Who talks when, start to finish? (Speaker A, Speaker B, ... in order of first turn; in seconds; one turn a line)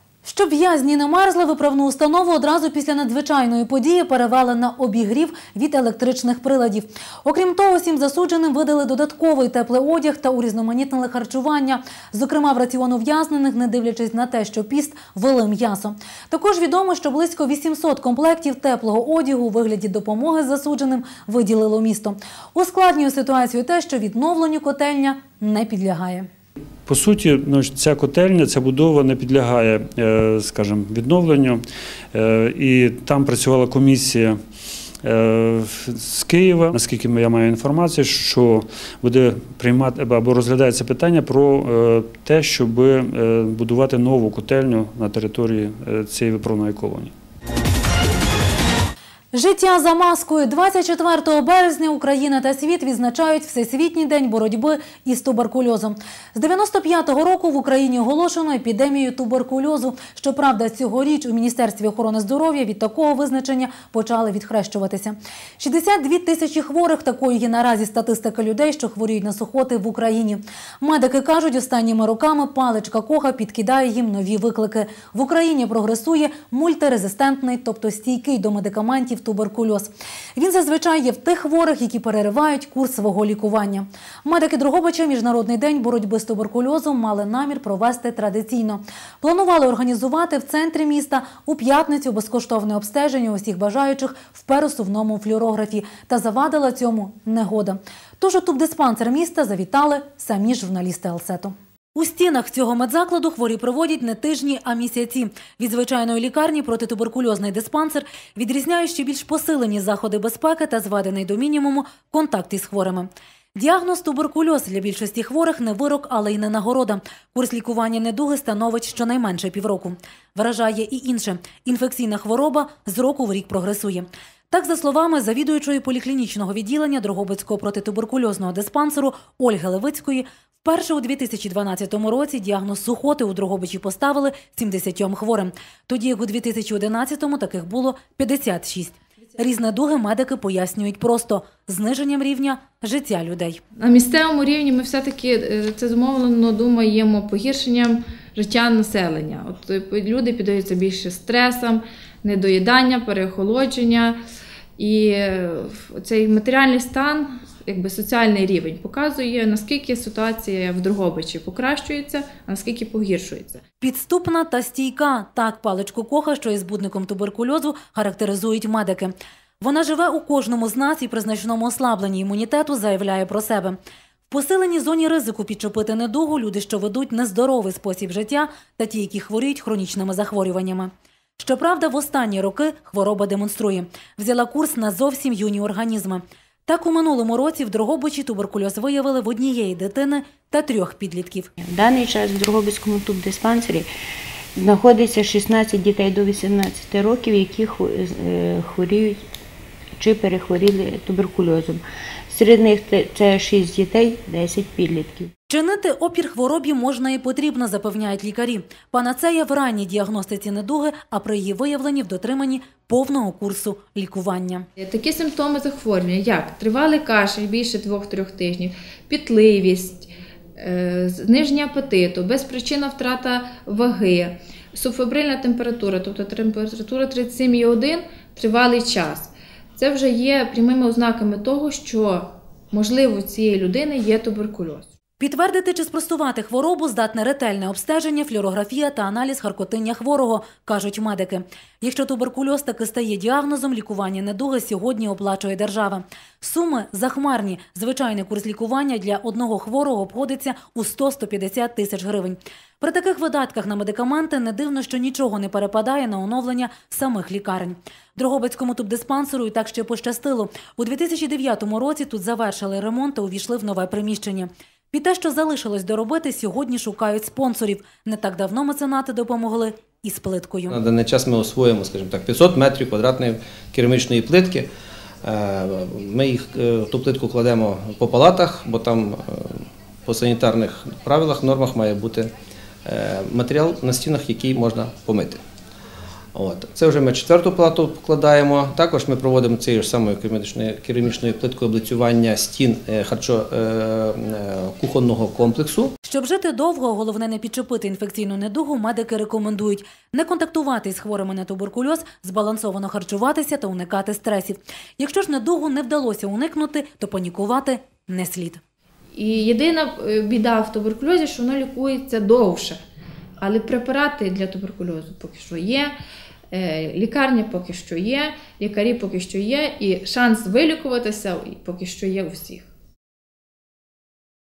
Speaker A: 0.2-26.3
Speaker B: 26.9-34.4
Speaker B: 35.0-47.1
Speaker A: 49.3-143.6
Speaker C: 143.8-154.2
Speaker C: 154.8-163.6
Speaker A: 163.8-173.8
Speaker A: 174.3-191.5
Speaker D: 191.6-193.9
Speaker D: 194.6-199.2
Speaker D: 200.0-205.3
Speaker A: 205.5-214.7
Speaker C: 214.8-234.9
Speaker A: 235.2-270.8
Speaker E: 270.7-274.7
Speaker E: 275.2-282.3
Speaker E: 282.8-285.4
Speaker E: 286.3-295.9
Speaker A: 296.0-308.6
Speaker C: 309.1-312.8
Speaker C: 313.4-316.0
Speaker C: 316.5-322.6